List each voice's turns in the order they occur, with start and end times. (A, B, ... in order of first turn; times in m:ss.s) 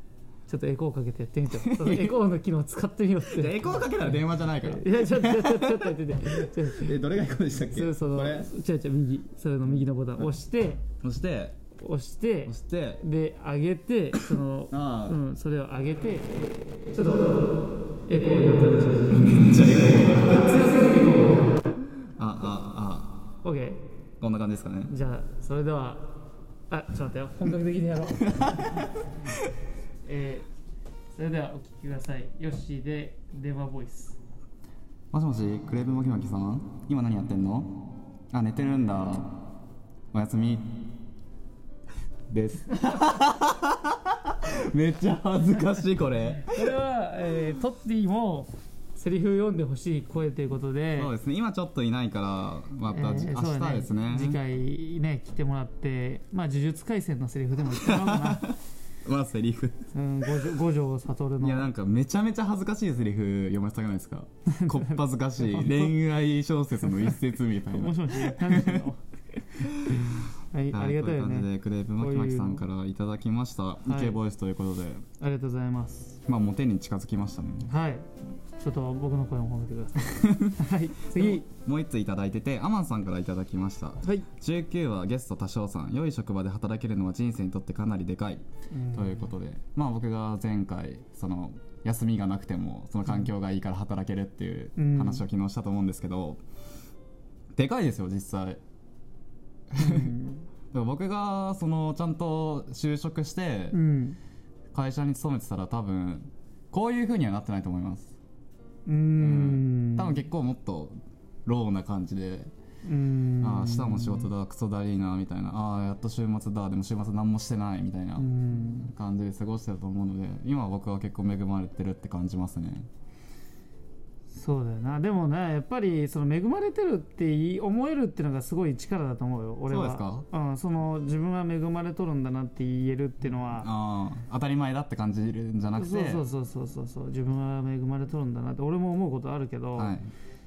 0:00.5-0:03.9 A
0:01.5-0:02.2 B
0:03.2-0:08.5 B
0:04.5-0:06.9 A
0:07.7-0:10.8 A
0:11.0-0:11.6 B
0:11.8-0:17.5 A
0:12.5-0:13.0 B
0:14.7-0:15.2 B
0:18.1-0:21.6 A
0:19.1-0:20.5 B
0:22.2-0:23.1 B
0:23.4-0:23.8 A
0:24.2-0:24.9 B
0:24.9-0:26.1 A
0:26.7-0:28.8 A
0:28.3-0:29.4 B
0:30.0-0:30.5 A
0:31.1-0:34.2 A
0:35.1-0:37.7 B
0:38.3-0:39.3 B
0:40.1-0:40.7 B
0:42.3-0:46.7 B
0:46.5-0:51.1 A
0:51.0-0:54.4 B
0:52.9-0:58.6 A
0:57.7-0:59.9 B
0:59.9-1:01.7 A
1:01.4-1:08.9 B
1:04.5-1:05.9 A
1:06.8-1:09.0 A
1:09.6-1:10.2 B
1:10.2-1:12.6 A
1:10.7-1:15.0 B
1:13.8-1:14.2 A
1:15.2-1:16.2 A
1:16.3-1:17.7 B
1:17.6-1:21.4 A
1:20.0-1:36.4 B
1:24.0-1:24.3 A
1:28.7-1:29.3 A
1:34.8-1:35.2 A
1:37.5-1:38.6 B
1:39.7-1:40.1 B
1:39.8-1:40.4 A
1:40.7-1:43.8 B
1:43.7-1:44.2 A
1:44.7-1:48.1 B
1:48.8-1:50.3 A
1:49.2-1:52.5 B
1:52.8-1:54.3 A
1:53.4-2:02.9 B
1:58.2-1:58.9 A
2:04.3-2:13.7 A
2:09.7-2:10.3 B
2:13.5-2:16.2 B
2:15.8-2:20.0 A
2:19.7-2:20.1 B